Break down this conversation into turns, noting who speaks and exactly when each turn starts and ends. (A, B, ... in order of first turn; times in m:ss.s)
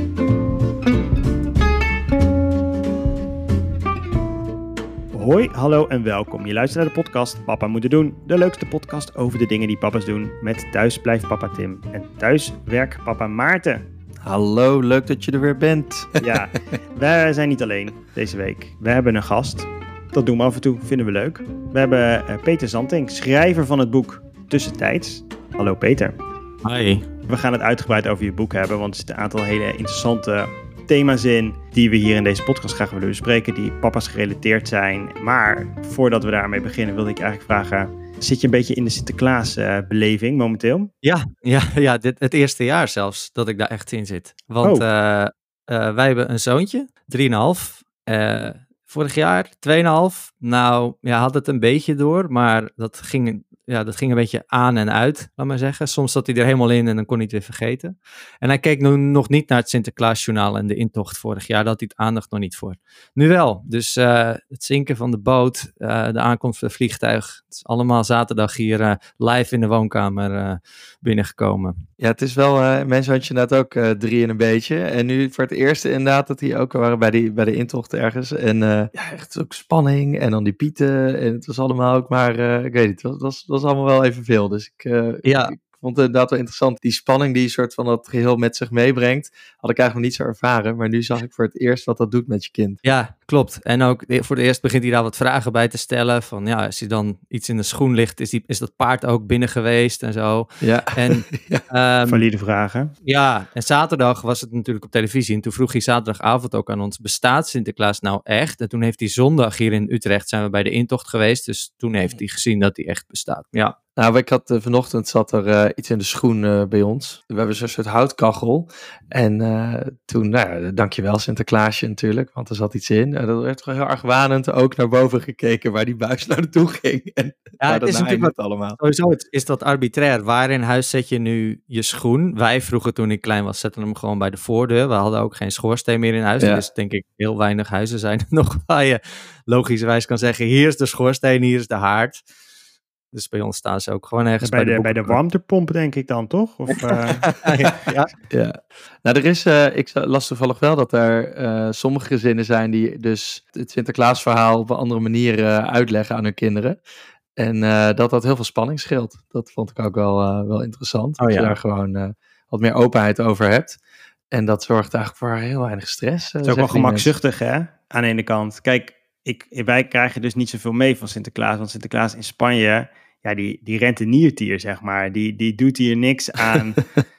0:05.1-0:13.9 A
0:14.2-0:16.2 B
0:16.2-0:26.1 A
0:26.6-0:27.0 C
0:27.3-0:40.9 A
0:41.0-1:11.8 C
1:12.0-1:32.8 B
1:25.2-1:25.5 C
1:32.8-1:42.2 C
1:40.6-1:41.6 B
1:42.1-1:42.9 A
1:43.0-1:53.8 C
1:54.0-2:08.8 B
2:07.6-2:22.2 C
2:16.4-2:16.6 B
2:23.1-2:25.2 C
2:24.4-2:27.3 A
2:27.0-2:28.1 C
2:28.3-2:36.8 B
2:37.4-2:43.8 B
2:41.2-2:41.5 C
2:44.3-2:47.1 B
2:46.4-2:56.8 A